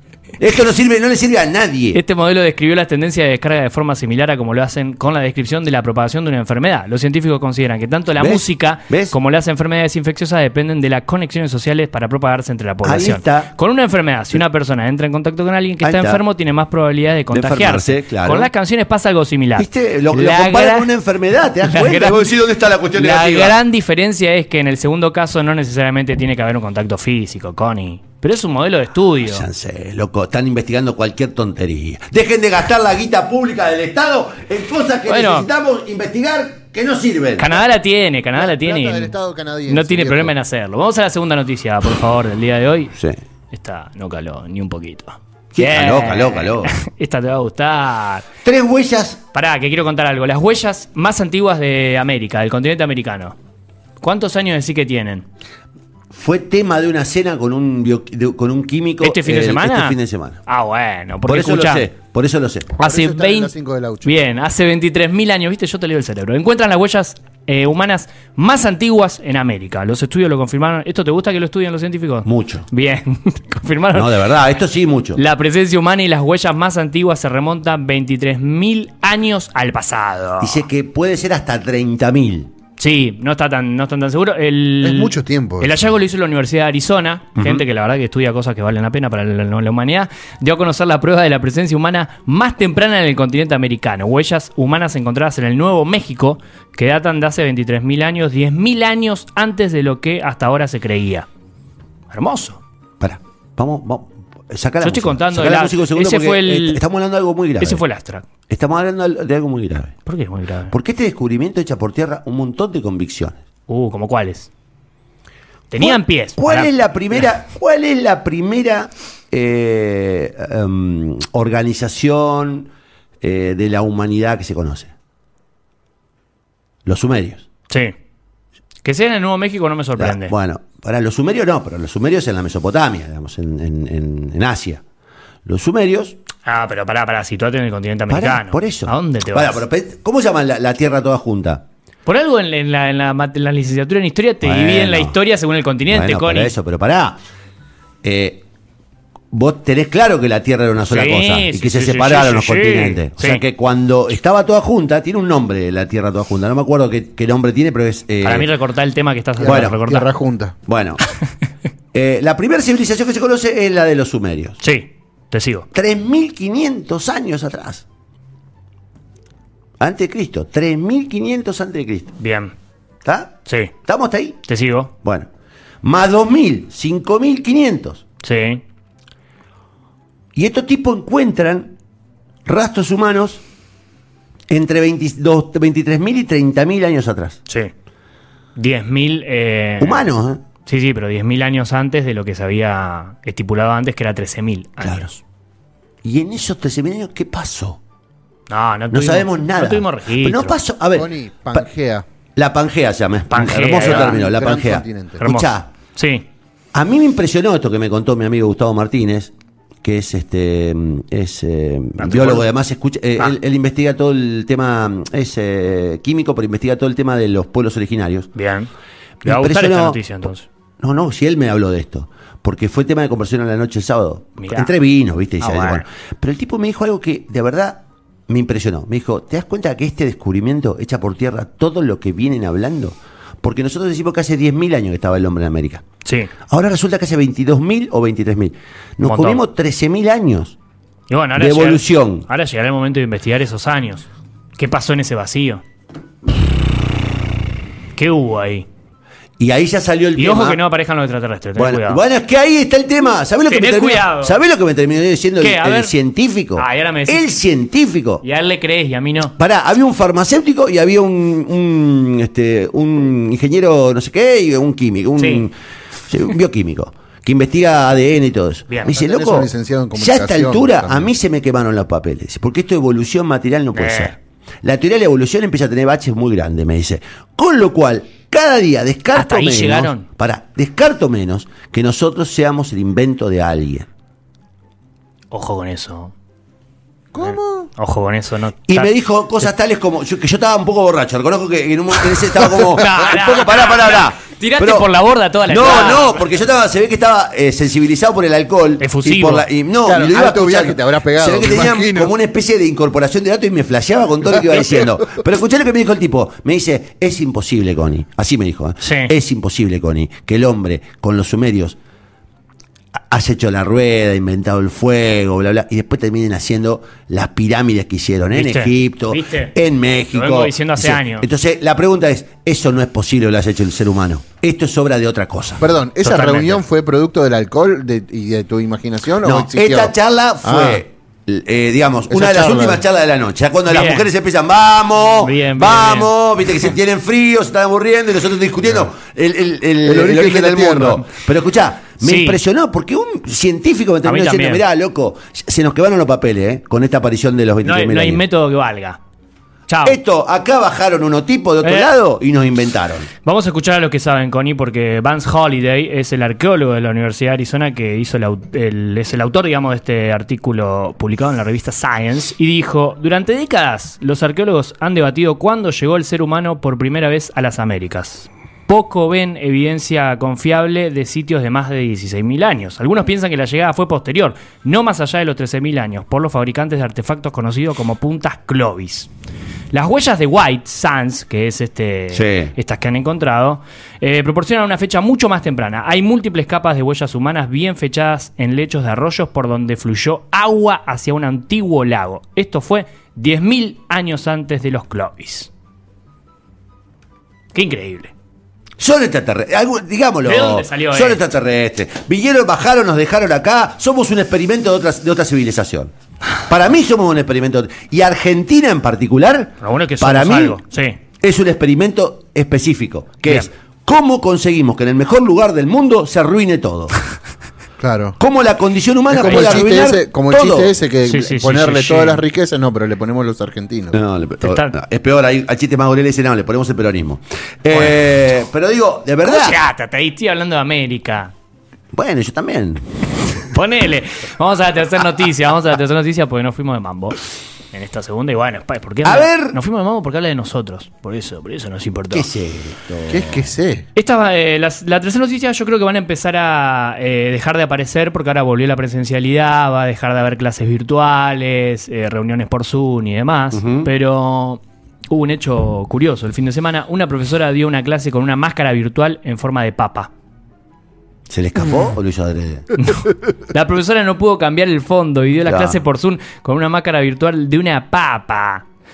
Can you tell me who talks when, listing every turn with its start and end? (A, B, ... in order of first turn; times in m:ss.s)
0:00.4-0:02.0 A
0:01.9-0:20.9 B
0:08.2-0:09.2 A
0:12.8-0:13.5 A
0:15.8-0:16.2 A
0:17.3-0:18.5 A
0:19.6-0:23.6 A
0:21.7-0:22.3 B
0:22.9-0:29.5 B
0:29.2-0:37.6 A
0:35.1-0:35.5 B
0:37.4-0:39.1 B
0:38.4-0:40.3 C
0:39.7-0:42.9 B
0:43.5-0:48.3 B
0:45.5-0:46.7 A
0:48.4-0:49.2 A
0:49.3-0:53.4 B
0:54.0-0:55.2 B
0:56.1-1:00.4 A
0:59.0-1:01.9 B
1:01.3-1:02.8 A
1:02.8-1:03.5 B
1:02.8-1:04.2 C
1:04.0-1:14.2 B
1:12.3-1:12.7 A
1:13.9-1:15.2 A
1:15.2-1:20.6 B
1:20.4-1:22.5 A
1:22.8-1:41.3 B
1:24.8-1:25.8 C
1:27.4-1:27.6 A
1:42.1-1:42.6 B
1:43.0-1:47.8 A
1:44.8-1:46.8 B
1:47.6-1:48.3 B
1:48.5-1:50.0 A
1:50.1-1:50.7 B
1:50.7-1:53.4 A
1:53.7-1:54.5 B
1:55.7-1:56.7 B
1:55.8-2:02.7 A
2:03.2-2:04.9 A
2:06.9-2:07.5 A
2:08.8-2:10.3 B
2:10.0-2:14.8 A
2:15.5-2:16.2 A
2:16.4-2:19.6 B
2:18.1-2:21.6 A
2:22.1-2:26.5 B
2:24.4-2:25.2 A
2:25.9-2:27.2 A
2:28.0-2:28.4 A
2:29.3-2:38.5 A
2:30.9-2:33.4 B
2:38.2-2:40.1 B
2:39.4-2:40.6 C
2:39.4-2:39.8 A
2:40.7-2:41.0 A
2:41.9-2:44.6 A
2:44.6-2:45.7 B
2:45.7-2:47.8 A
2:49.8-2:52.2 A
2:52.2-2:52.5 B
2:53.0-2:54.4 A
2:53.5-2:53.7 B
2:54.5-2:54.9 B
2:55.0-2:55.3 A
2:55.8-2:58.0 A
2:58.2-2:58.6 B
3:00.4-3:01.7 A
3:02.4-3:03.4 A
3:04.5-3:07.4 A
3:08.6-3:10.1 B
3:09.8-3:10.4 A
3:10.7-3:15.2 B
3:14.8-3:15.1 A
3:16.0-3:17.8 A
3:18.5-3:20.6 B
3:18.9-3:21.6 A
3:21.0-3:22.1 C
3:22.4-3:25.7 A
3:23.3-3:24.2 B
3:23.6-3:25.2 C
3:25.2-3:26.3 B
3:26.7-3:29.3 A
3:29.8-3:38.3 A
3:32.0-3:32.5 B
3:38.4-3:38.7 B
3:39.2-3:40.0 A
3:39.2-3:40.5 B
3:40.8-3:55.8 A
3:44.4-3:44.7 B
3:45.4-3:45.9 B
3:56.0-3:56.3 B
3:56.5-4:00.6 A
3:59.0-3:59.4 B
4:01.1-4:05.6 B
4:01.4-4:02.3 A
4:08.0-4:08.7 B
4:09.4-4:10.6 A
4:10.2-4:12.0 B
4:11.6-4:18.2 A
4:13.5-4:14.4 B
4:15.4-4:15.9 B
4:16.6-4:17.3 B
4:18.2-4:19.4 B
4:19.4-4:25.5 A
4:25.2-4:25.4 B
4:26.1-4:43.9 A
4:28.7-4:29.0 B
4:28.9-4:31.1 C
4:33.7-4:34.1 B
4:39.1-4:40.1 B
4:45.3-4:46.1 B
4:47.1-4:47.7 C
4:47.2-4:48.9 B
4:48.7-4:54.9 A
4:52.4-4:56.2 B
4:55.5-5:11.8 A
4:58.8-4:59.5 B
4:59.8-5:02.1 C
5:04.5-5:04.9 C
5:08.8-5:09.1 B
5:13.1-5:25.6 A
5:18.4-5:19.5 B
5:20.1-5:21.3 B
5:25.6-5:30.8 C
5:26.0-5:26.6 B
5:29.2-5:48.2 A
5:32.1-5:32.8 C
5:33.7-5:34.1 B
5:35.2-5:36.1 B
5:39.8-5:41.0 C
5:42.0-5:42.4 B
5:44.0-5:44.6 B
5:47.6-5:49.0 B
5:49.7-5:50.0 B
5:49.8-5:53.1 A
5:51.6-5:51.9 B
5:53.2-6:19.1 B
6:19.7-6:35.5 B
6:22.1-6:22.5 A
6:37.5-6:38.1 B
6:38.8-6:45.9 A
6:40.2-6:41.2 B
6:46.5-6:50.6 A
6:49.6-6:51.0 B
6:51.2-6:57.0 A
6:57.8-6:58.2 C
6:58.2-7:00.7 A
6:59.1-7:04.0 C
6:59.2-6:59.7 B
7:01.1-7:02.2 B
7:03.9-7:09.6 A
7:04.4-7:04.8 B
7:09.2-7:11.3 B
7:11.9-7:12.8 A
7:13.5-7:17.2 B
7:17.7-7:22.3 B
7:19.0-7:19.6 A
7:22.1-7:23.5 A
7:23.1-7:23.9 C
7:24.0-7:40.1 B
7:33.5-7:33.9 A
7:41.3-7:42.8 A
7:42.8-7:48.7 B
7:45.5-7:45.8 A